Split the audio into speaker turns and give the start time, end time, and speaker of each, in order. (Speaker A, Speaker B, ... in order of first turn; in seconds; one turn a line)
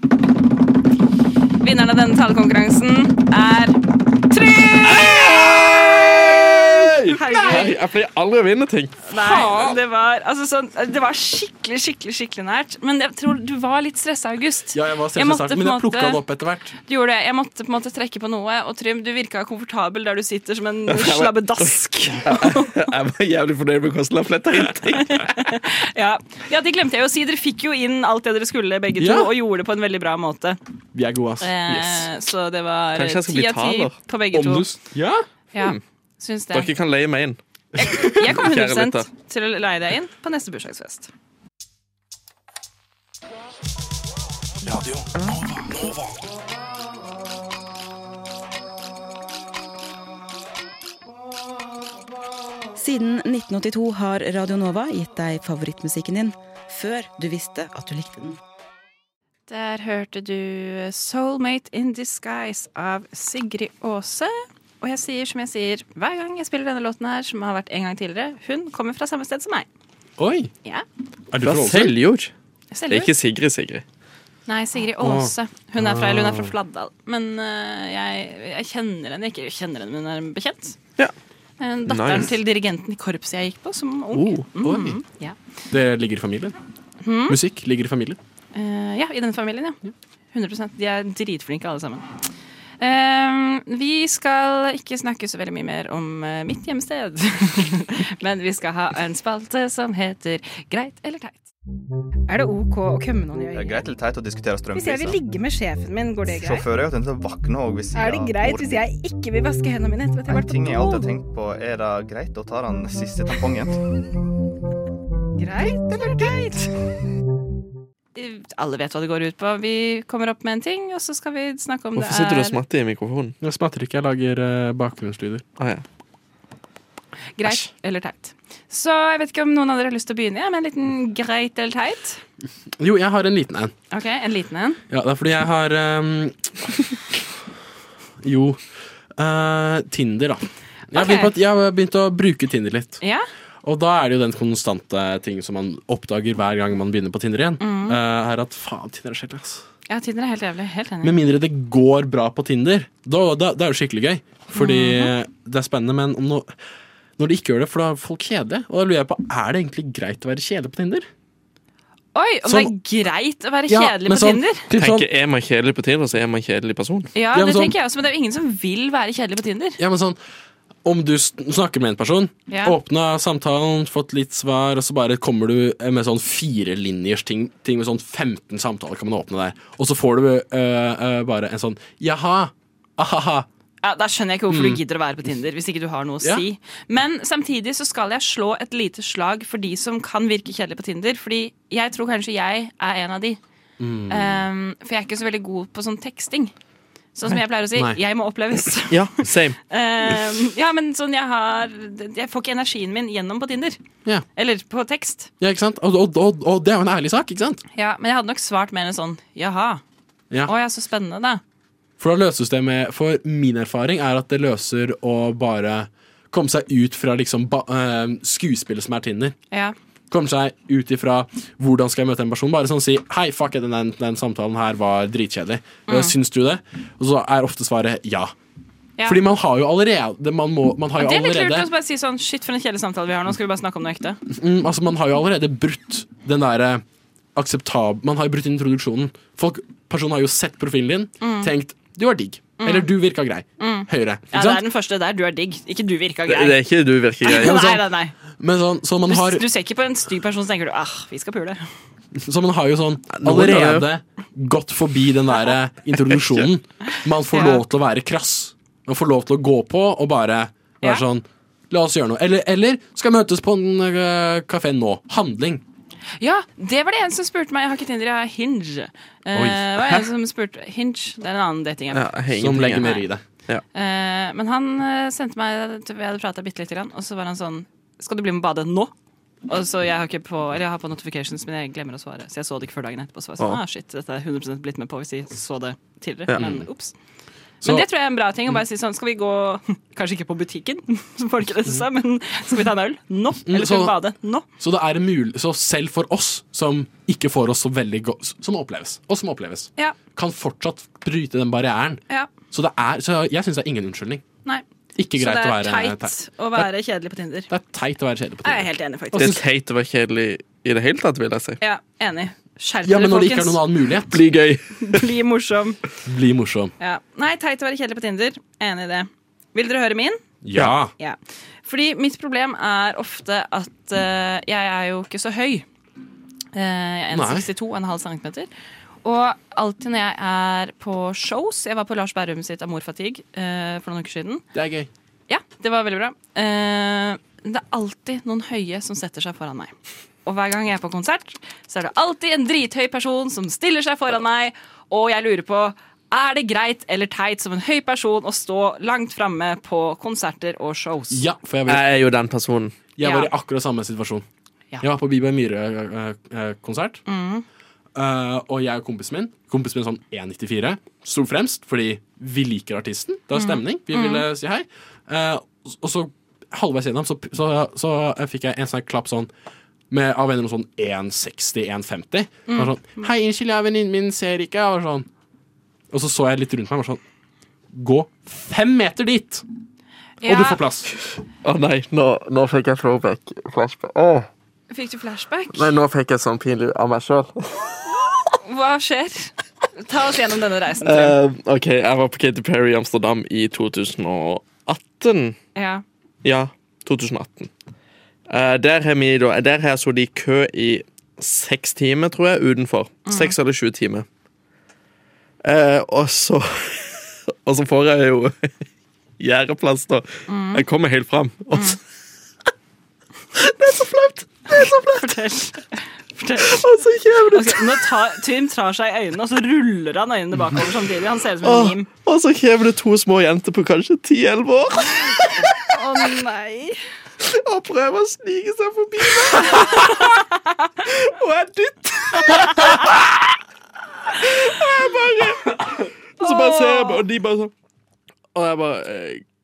Speaker A: 1.6-5.5
Speaker B: 4.9-9.0
Speaker A: 7.1-7.8
Speaker C: 7.3-7.5
Speaker A: 9.1-16.2
Speaker C: 9.1-9.8
Speaker C: 14.7-16.8
Speaker A: 16.9-22.9
Speaker B: 20.9-21.7
Speaker B: 22.2-25.3
Speaker A: 25.0-30.6
Speaker C: 29.0-29.3
Speaker C: 30.9-32.1
Speaker A: 31.4-34.7
Speaker B: 33.0-34.0
Speaker C: 34.3-35.2
Speaker A: 35.5-36.7
Speaker B: 36.5-37.4
Speaker A: 37.8-41.1
Speaker B: 38.0-39.1
Speaker C: 44.6-46.2
Speaker D: 52.7-58.4
Speaker A: 59.5-69.7
Speaker C: 70.2-70.5
Speaker C: 71.3-72.0
Speaker B: 71.4-72.3
Speaker A: 72.7-73.1
Speaker B: 72.9-73.8
Speaker A: 74.5-80.8
Speaker C: 75.0-76.5
Speaker A: 81.6-85.4
Speaker B: 81.9-82.4
Speaker C: 84.2-85.0
Speaker C: 85.7-86.5
Speaker A: 87.0-87.4
Speaker C: 87.3-88.2
Speaker A: 88.5-89.8
Speaker A: 90.3-92.0
Speaker A: 92.8-101.5
Speaker A: 102.3-103.8
Speaker E: 103.5-105.2
Speaker A: 104.7-106.6
Speaker E: 106.3-108.8
Speaker A: 107.9-111.1
Speaker E: 110.3-113.8
Speaker A: 115.4-116.7
Speaker A: 118.2-122.6
Speaker B: 122.0-123.3
Speaker C: 123.4-125.5
Speaker B: 125.6-125.8
Speaker A: 127.4-132.2
Speaker C: 132.8-133.7
Speaker A: 133.9-134.8
Speaker C: 134.9-136.5
Speaker C: 138.2-138.6
Speaker C: 139.2-143.0
Speaker A: 140.9-141.3
Speaker A: 143.0-143.3
Speaker C: 143.6-149.6
Speaker A: 147.6-148.0
Speaker A: 149.9-151.2
Speaker C: 151.0-156.5
Speaker A: 154.6-155.1
Speaker C: 157.2-161.1
Speaker A: 162.1-164.7
Speaker C: 162.4-162.7
Speaker C: 163.7-165.1
Speaker B: 164.8-167.1
Speaker A: 167.1-169.8
Speaker C: 167.3-167.8
Speaker C: 169.8-170.2
Speaker C: 170.8-183.5
Speaker A: 172.5-172.8
Speaker A: 183.8-193.4
Speaker C: 184.5-184.8
Speaker C: 193.8-194.4
Speaker A: 194.1-196.5
Speaker A: 197.1-199.0
Speaker C: 197.3-198.0
Speaker B: 198.9-199.6
Speaker A: 199.7-203.8
Speaker A: 204.3-205.3
Speaker C: 205.4-207.6
Speaker A: 207.7-209.8
Speaker A: 210.4-211.4
Speaker C: 212.0-219.4
Speaker C: 220.1-228.3
Speaker A: 225.9-226.1
Speaker C: 229.0-231.7
Speaker A: 231.0-234.2
Speaker C: 234.3-236.8
Speaker C: 237.3-244.6
Speaker A: 241.2-241.5
Speaker A: 242.6-242.9
Speaker A: 243.6-246.6
Speaker B: 246.3-247.6
Speaker A: 247.2-248.1
Speaker C: 247.3-247.9
Speaker C: 248.4-249.4
Speaker A: 249.1-251.7
Speaker C: 252.2-265.6
Speaker B: 253.1-253.8
Speaker B: 256.1-256.5
Speaker A: 257.3-257.6
Speaker A: 266.2-272.1
Speaker C: 269.3-269.9
Speaker B: 271.9-272.9
Speaker C: 272.3-273.2
Speaker A: 272.8-273.1
Speaker A: 273.7-278.9
Speaker A: 279.4-286.9
Speaker C: 286.4-286.6
Speaker C: 287.6-287.9
Speaker A: 287.6-294.4
Speaker C: 293.4-294.0
Speaker C: 294.6-304.2
Speaker C: 304.9-306.1
Speaker A: 305.2-307.5
Speaker C: 307.5-309.4
Speaker A: 308.4-309.4
Speaker B: 309.1-311.6
Speaker A: 311.6-313.6
Speaker C: 312.8-314.2
Speaker B: 314.1-315.1
Speaker A: 314.8-315.8
Speaker C: 316.1-316.7
Speaker A: 316.8-325.6
Speaker C: 320.4-320.9
Speaker A: 326.5-328.5
Speaker C: 327.1-327.5
Speaker A: 329.0-334.4
Speaker C: 334.5-334.9
Speaker A: 335.3-339.7
Speaker A: 340.2-351.3
Speaker C: 351.1-351.8
Speaker B: 351.7-352.8
Speaker C: 353.0-354.2
Speaker A: 353.0-353.3
Speaker C: 354.8-357.0
Speaker A: 357.1-357.4
Speaker C: 357.9-369.3
Speaker A: 363.3-364.2
Speaker C: 369.9-375.1
Speaker A: 372.5-373.1
Speaker C: 375.9-377.0
Speaker C: 377.7-379.4
Speaker A: 380.2-380.6
Speaker C: 380.2-380.9
Speaker B: 381.4-384.3
Speaker A: 384.7-385.7
Speaker B: 385.5-387.7
Speaker A: 388.4-391.2
Speaker B: 390.8-395.4
Speaker A: 395.6-395.8
Speaker B: 396.2-397.5
Speaker B: 398.3-404.1
Speaker A: 403.1-403.3
Speaker B: 405.4-408.5
Speaker B: 409.2-411.8
Speaker A: 410.3-410.6
Speaker B: 413.4-415.1
Speaker A: 414.5-416.6
Speaker B: 416.4-417.8
Speaker A: 417.3-421.9
Speaker B: 421.4-425.6
Speaker A: 425.6-426.8
Speaker B: 427.2-430.2
Speaker A: 429.3-430.7
Speaker B: 430.8-433.2
Speaker A: 432.3-432.8
Speaker B: 434.1-437.5
Speaker A: 436.2-437.0
Speaker B: 438.3-439.2